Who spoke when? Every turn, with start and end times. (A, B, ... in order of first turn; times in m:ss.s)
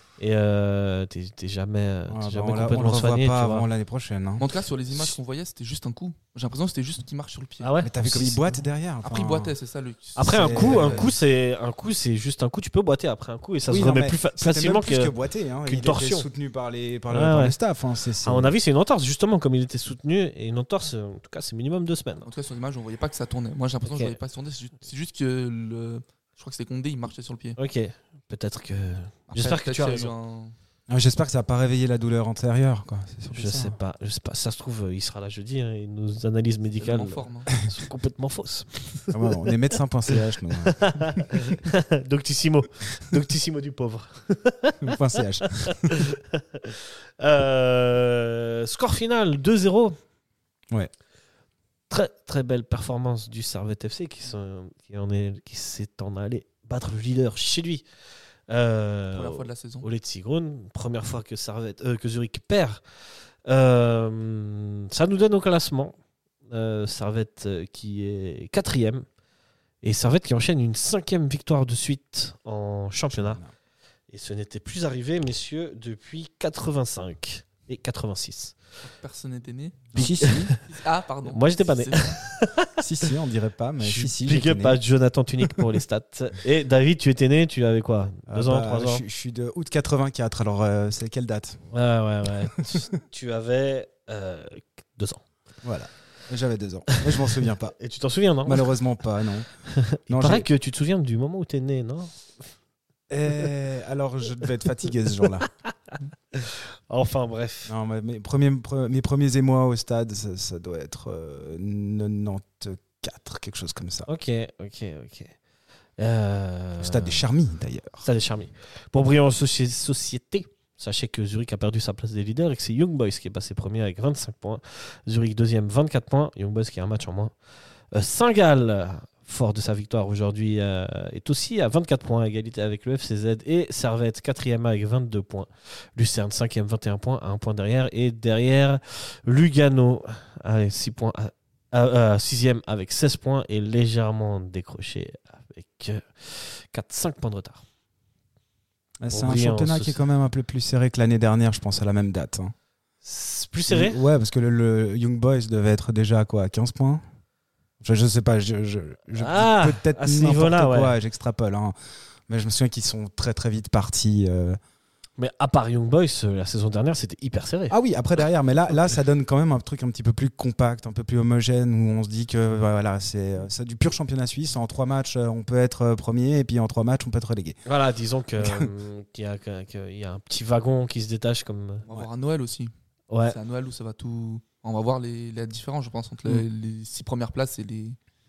0:00.2-0:03.7 A
0:02.1-0:04.5 B
0:04.4-0:07.8 C
0:07.6-0:08.6 A
0:07.8-0:09.5 B
0:09.0-0:11.2 C
0:10.2-0:16.3 A
0:10.2-0:11.1 B
0:13.7-0:18.5 B
0:17.1-0:17.6 A
0:18.2-0:22.3 A
0:22.2-0:27.6 C
0:23.8-0:24.2 A
0:27.6-0:30.1 A
0:29.3-0:30.6 C
0:30.9-0:33.8 B
0:33.3-0:39.4 A
0:36.8-0:37.5 C
0:39.1-0:41.6 B
0:40.7-0:44.8 A
0:44.8-0:45.9 B
0:45.4-0:50.0 A
0:51.9-0:57.9 A
0:58.5-1:02.8 A
0:59.1-0:59.9 C
1:03.5-1:06.0 A
1:06.5-1:09.0 A
1:09.8-1:13.4 A
1:13.1-1:13.5 B
1:14.1-1:18.5 A
1:18.8-1:22.2 C
1:19.9-1:20.5 B
1:20.0-1:20.6 A
1:21.2-1:22.7 A
1:22.8-1:24.8 B
1:23.8-1:29.0 A
1:28.3-1:31.6 B
1:31.7-1:35.2 A
1:35.6-1:37.8 B
1:37.1-1:38.8 A
1:38.5-1:39.5 B
1:39.7-1:42.2 A
1:40.1-1:40.5 B
1:43.1-1:45.5 B
1:45.4-1:47.7 A
1:47.7-1:54.1 B
1:54.0-1:55.4 A
1:56.0-1:57.2 A
1:56.8-1:58.0 B
1:58.0-2:07.3 A
2:07.9-2:27.6 A
2:29.0-2:32.5 B
2:29.1-2:30.0 A
2:33.0-2:34.0 A
2:33.7-2:37.0 B
2:37.8-2:41.8 B
2:39.2-2:41.0 A
2:42.3-2:44.6 B
2:45.2-2:47.8 A
2:47.7-2:57.6 B
2:57.7-3:02.1 A
2:58.4-2:58.7 B
3:01.8-3:02.7 C
3:03.1-3:03.4 A
3:03.2-3:08.0 C